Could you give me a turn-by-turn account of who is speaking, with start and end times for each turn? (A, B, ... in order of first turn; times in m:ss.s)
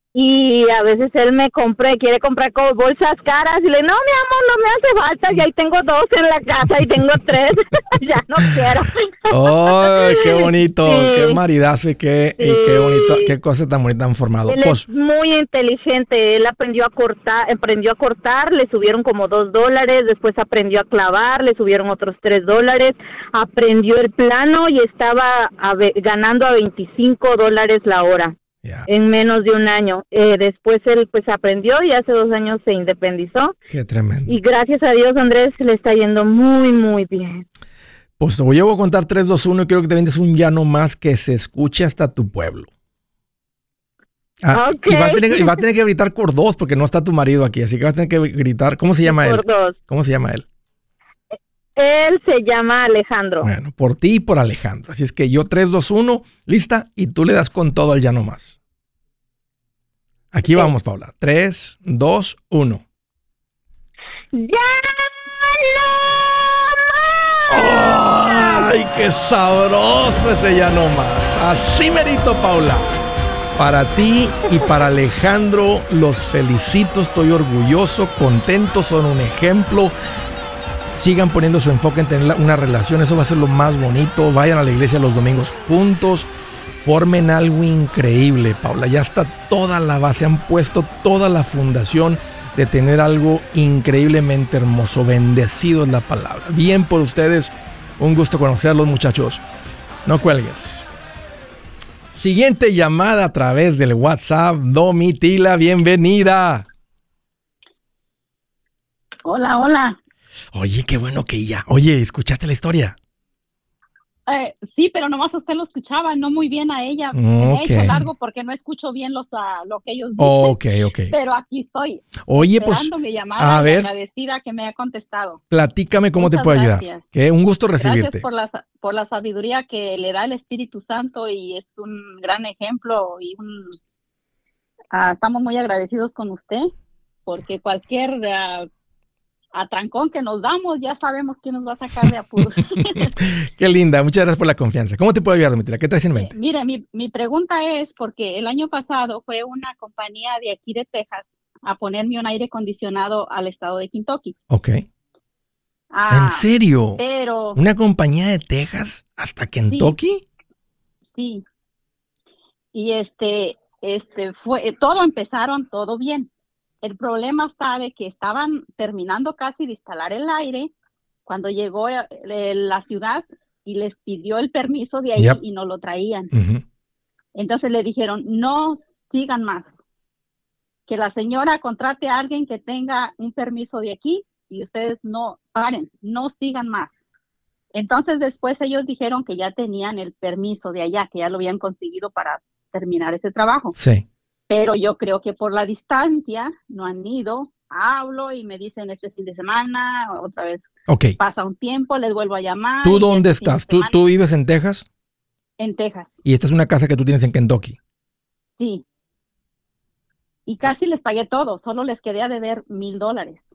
0:00.1-0:11.4 A
0:09.3-0:14.8 B
0:12.4-0:13.3 A
0:14.5-0:28.3 A
0:28.6-0:28.9 B
0:28.9-0:33.5 A
0:33.7-0:34.4 B
0:34.3-0:37.4 A
0:38.2-0:42.7 B
0:44.4-0:50.4 B
0:44.5-0:45.6 A
0:49.0-0:49.8 A
0:51.8-0:53.5 A
0:53.4-0:58.6 B
1:00.3-1:02.8 B
1:00.4-1:00.7 A
1:04.3-1:08.7 A
1:07.5-1:12.9 B
1:13.6-1:19.9 B
1:20.9-1:26.3 B
1:26.8-1:39.4 B
1:40.0-1:40.8 B
1:42.1-1:46.7 B
1:49.2-1:50.0 C
1:50.5-1:53.0 B
1:54.3-2:00.6 C
1:57.1-1:58.0 B
2:00.2-2:01.1 B
2:01.1-2:05.4 C
2:02.2-2:03.9 B
2:05.5-2:08.2 B
2:06.2-2:07.0 C
2:07.8-2:13.8 C
2:14.9-2:16.7 C
2:17.2-2:18.7 C
2:19.5-2:23.1 C
2:22.7-2:26.3 B
2:26.2-2:34.4 C
2:34.5-2:34.8 B
2:35.9-2:37.6 C
2:36.1-2:37.0 B
2:37.5-2:40.2 B
2:41.1-2:41.4 C
2:42.7-2:46.3 C
2:46.8-2:50.7 C
2:51.2-2:56.3 C
2:56.3-2:56.6 B
2:57.3-2:59.7 C
3:00.9-3:06.9 C
3:07.7-3:13.8 C
3:13.8-3:14.0 B
3:14.5-3:24.0 C
3:20.9-3:21.2 B
3:22.8-3:24.8 B
3:25.6-3:26.1 C
3:26.2-3:27.8 B
3:28.6-3:28.8 C
3:30.5-3:33.4 C